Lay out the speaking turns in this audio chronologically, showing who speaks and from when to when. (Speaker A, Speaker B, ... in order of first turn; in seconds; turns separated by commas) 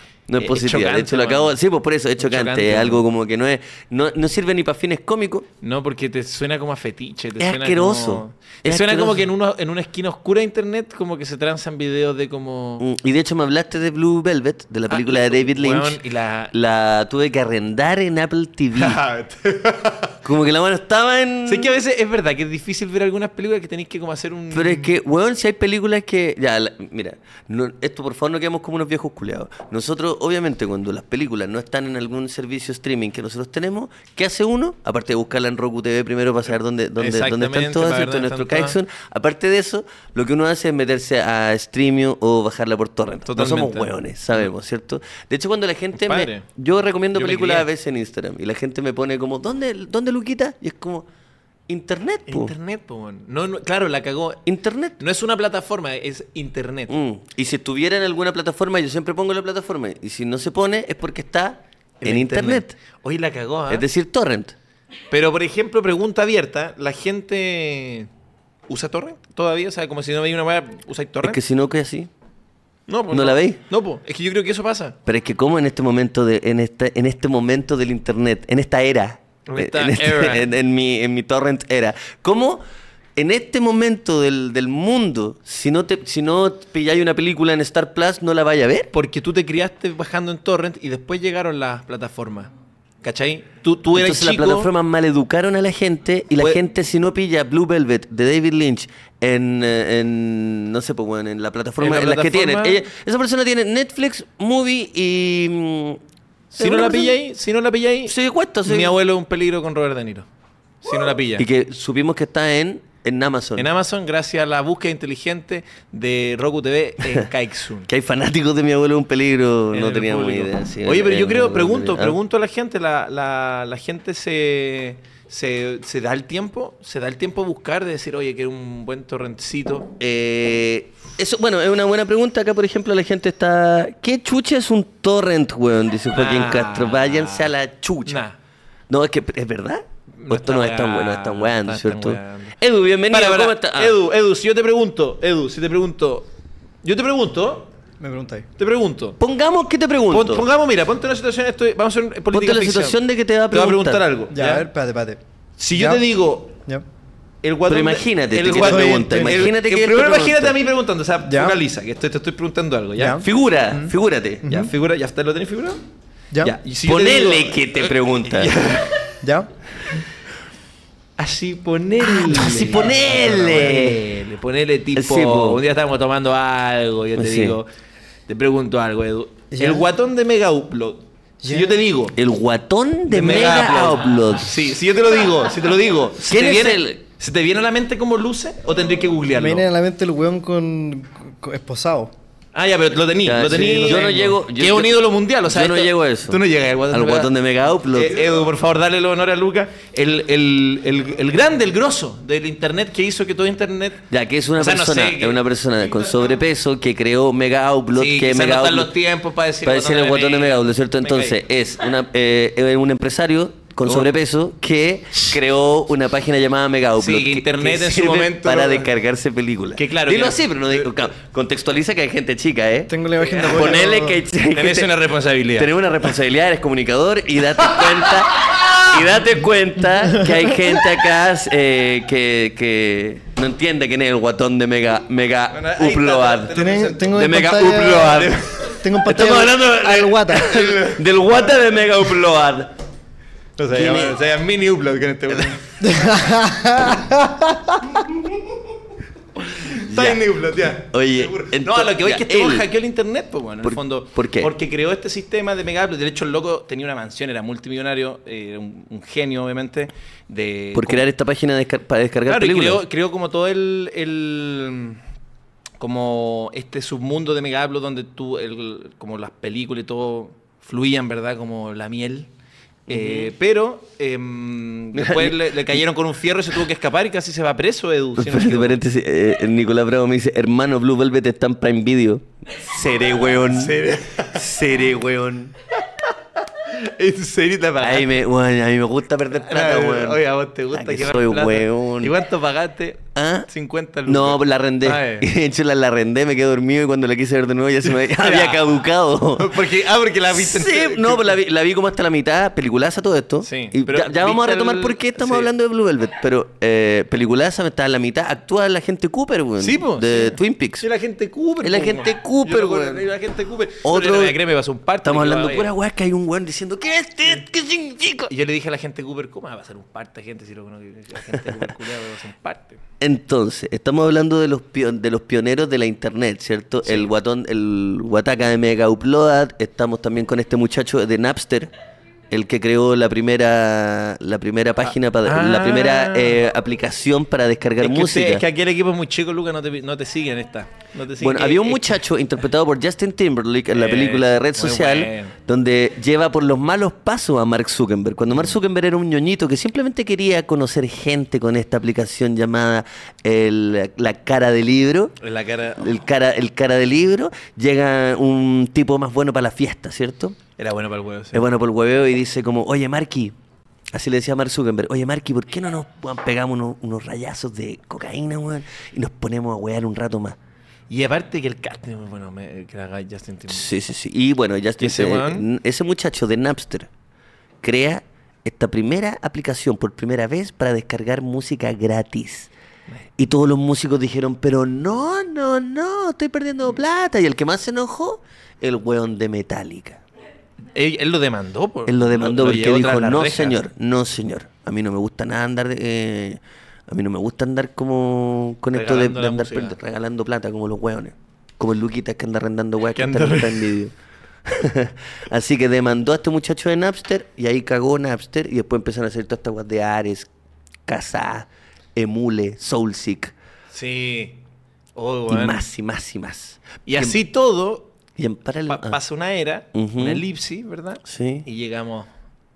Speaker A: 0.3-5.5, Speaker B: 0.4-1.6, Speaker B: 2.2-3.0, Speaker B: 5.6-12.8, Speaker A: 7.4-9.3, Speaker A: 12.8-19.0, Speaker B: 14.9-16.5, Speaker B: 18.7-20.1, Speaker A: 20.2-21.8, Speaker B: 21.4-24.9, Speaker A: 24.5-51.0, Speaker B: 37.0-38.8, Speaker B: 43.2-44.5, Speaker B: 46.0-46.4, Speaker B: 47.1-47.7, Speaker A: 51.7-52.5, Speaker B: 52.3-54.4, Speaker A: 54.4-55.0, Speaker B: 55.0-57.0, Speaker A: 56.9-62.7, Speaker B: 62.0-63.9, Speaker A: 63.7-64.5, Speaker B: 65.1-68.1, Speaker B: 68.7-71.4, Speaker A: 71.2-72.1, Speaker B: 72.9-75.0, Speaker A: 73.1-73.6, Speaker A: 75.0-82.6, Speaker B: 79.5-80.5, Speaker A: 83.2-88.9, Speaker B: 88.9-92.5, Speaker B: 93.0-94.7, Speaker A: 93.9-106.0, Speaker B: 101.8-102.8, Speaker B: 106.5-110.3, Speaker A: 106.5-107.2, Speaker A: 108.1-108.9, Speaker B: 110.8-111.5, Speaker A: 111.4-113.7, Speaker B: 113.5-117.9, Speaker A: 117.9-122.2, Speaker B: 119.7-129.9, Speaker A: 130.0-138.2, Speaker B: 136.1-137.5, Speaker B: 138.1-138.4, Speaker A: 138.9-144.0, Speaker B: 140.2-142.6, Speaker B: 143.1-146.3, Speaker B: 146.8-147.7, Speaker C: 148.0-148.5, Speaker B: 148.6-149.2, Speaker A: 149.2-150.5, Speaker B: 150.1-153.0, Speaker A: 152.3-154.1, Speaker B: 153.5-154.7, Speaker C: 154.3-155.2, Speaker B: 155.6-156.5, Speaker C: 155.7-156.0, Speaker B: 157.4-163.2, Speaker A: 157.7-160.6, Speaker C: 158.5-159.5, Speaker C: 161.3-161.6, Speaker C: 163.0-163.9, Speaker A: 163.2-164.7, Speaker C: 164.4-164.7, Speaker B: 164.4-165.8, Speaker B: 166.4-168.9, Speaker A: 166.7-168.8, Speaker C: 169.2-169.5, Speaker B: 171.2-177.7, Speaker A: 172.1-174.1, Speaker A: 174.9-175.6, Speaker A: 177.1-177.6, Speaker B: 178.3-182.2, Speaker C: 179.5-179.8, Speaker C: 181.4-181.8, Speaker A: 182.2-184.6, Speaker B: 183.1-189.7, Speaker A: 186.2-187.0, Speaker C: 189.3-192.1, Speaker B: 192.5-197.3, Speaker A: 193.2-198.4, Speaker B: 197.9-204.0, Speaker A: 204.1-208.9, Speaker B: 204.6-206.1, Speaker B: 207.9-211.4, Speaker A: 209.6-225.0, Speaker B: 213.8-214.2, Speaker B: 217.0-218.9, Speaker B: 219.8-221.1, Speaker C: 222.9-224.2, Speaker B: 223.2-223.9, Speaker B: 224.5-225.7, Speaker A: 225.5-236.6, Speaker B: 235.5-238.8, Speaker C: 236.5-240.5, Speaker A: 237.1-238.4, Speaker A: 239.0-242.7, Speaker B: 239.6-241.3, Speaker B: 243.6-246.1, Speaker A: 243.7-244.2, Speaker C: 245.8-247.8, Speaker A: 249.6-250.2, Speaker B: 249.6-261.1, Speaker A: 250.8-252.7, Speaker A: 253.6-254.5, Speaker A: 260.7-262.8, Speaker B: 262.3-265.0, Speaker B: 265.8-272.3, Speaker A: 272.9-273.3, Speaker B: 272.9-278.8, Speaker A: 274.9-275.8, Speaker A: 278.2-285.5, Speaker B: 283.3-284.4, Speaker B: 286.6-288.1, Speaker A: 287.8-292.1, Speaker B: 289.4-295.3, Speaker A: 293.1-293.5, Speaker A: 294.1-299.7, Speaker B: 297.8-298.6, Speaker B: 299.4-301.4, Speaker A: 300.3-310.9, Speaker B: 303.4-305.5, Speaker B: 309.6-315.7, Speaker A: 311.6-313.1, Speaker A: 313.8-314.4, Speaker A: 315.0-318.3, Speaker B: 318.3-322.8, Speaker A: 321.3-321.7, Speaker A: 323.0-331.7, Speaker B: 326.8-327.1, Speaker A: 332.3-338.4, Speaker B: 335.2-336.4, Speaker B: 337.8-341.9, Speaker A: 341.2-355.1, Speaker B: 343.7-345.3, Speaker B: 355.2-355.9, Speaker A: 355.8-360.4, Speaker B: 360.6-361.4, Speaker A: 361.3-363.3, Speaker A: 363.9-370.4, Speaker B: 370.9-373.7, Speaker A: 373.5-376.9, Speaker B: 374.8-375.4, Speaker A: 377.6-382.5, Speaker A: 383.2-390.0, Speaker B: 390.7-393.6, Speaker A: 391.9-403.9, Speaker B: 398.7-399.8, Speaker B: 402.9-403.7, Speaker A: 404.4-410.3, Speaker A: 410.9-413.3, Speaker B: 413.7-414.4, Speaker B: 414.9-415.6, Speaker A: 415.3-417.2, Speaker B: 416.9-417.9, Speaker A: 418.2-419.0, Speaker B: 418.7-422.1, Speaker A: 419.7-420.2, Speaker A: 421.0-421.4